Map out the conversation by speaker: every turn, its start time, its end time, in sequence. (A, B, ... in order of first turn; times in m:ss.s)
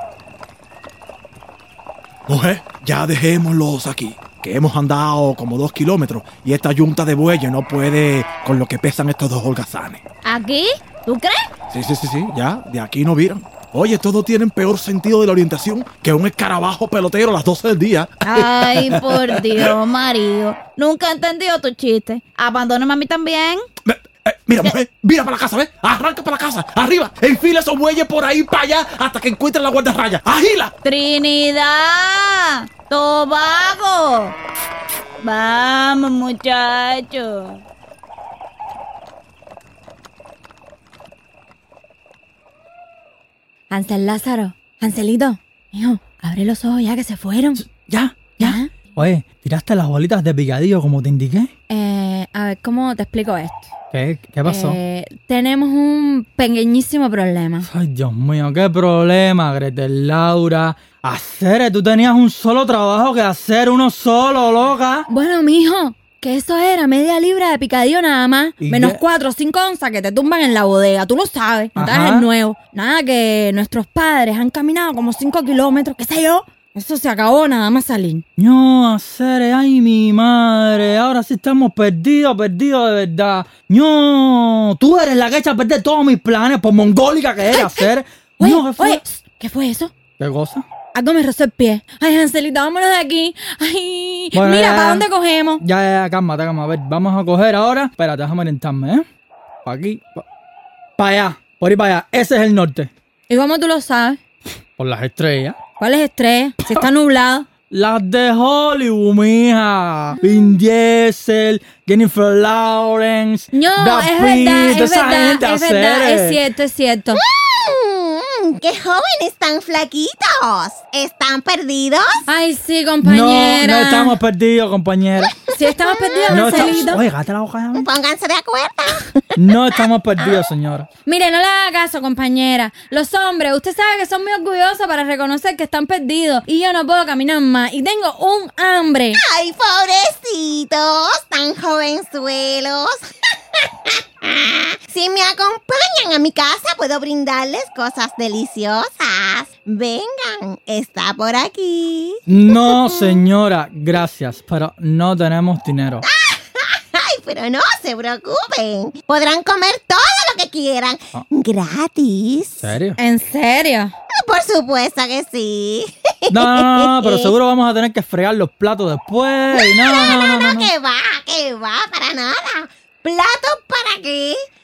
0:02.3-0:10.0 A
0:10.2-0:11.4 B
0:11.7-0:19.8 A
0:18.2-0:23.6 B
0:23.8-0:30.7 A
0:30.8-0:34.3 B
0:35.2-0:37.6 B
0:43.7-0:47.6 C
0:47.6-0:51.5 D
0:48.4-0:48.7 C
0:51.7-0:53.7 C
0:53.9-0:54.8 D
0:54.4-0:57.7 C
0:57.6-1:05.1 D
1:05.1-1:18.2 C
1:08.6-1:09.0 D
1:11.8-1:12.3 D
1:18.4-1:29.0 D
1:27.5-1:27.9 C
1:28.4-1:29.9 C
1:30.2-1:30.6 D
1:30.9-1:35.6 C
1:34.3-1:35.1 D
1:35.6-1:39.0 D
1:39.6-1:40.2 D
1:41.0-1:42.9 D
1:43.3-1:44.2 C
1:44.8-1:45.6 D
1:45.8-1:47.5 C
1:47.7-1:56.4 D
1:53.5-1:57.2 C
1:57.1-2:02.2 E
2:02.3-2:04.1 C
2:03.0-2:05.3 D
2:05.5-2:07.0 C
2:05.6-2:07.0 E
2:06.3-2:07.8 D
2:07.7-2:09.3 E
2:09.4-2:10.9 D
2:11.0-2:19.2 C
2:19.2-2:23.0 E
2:23.6-2:33.2 E
2:32.3-2:36.0 D
2:36.1-2:42.7 E
2:42.6-2:43.0 D
2:43.0-2:43.9 C
2:44.2-2:47.3 E
2:46.3-2:50.7 D
2:49.5-2:54.4 E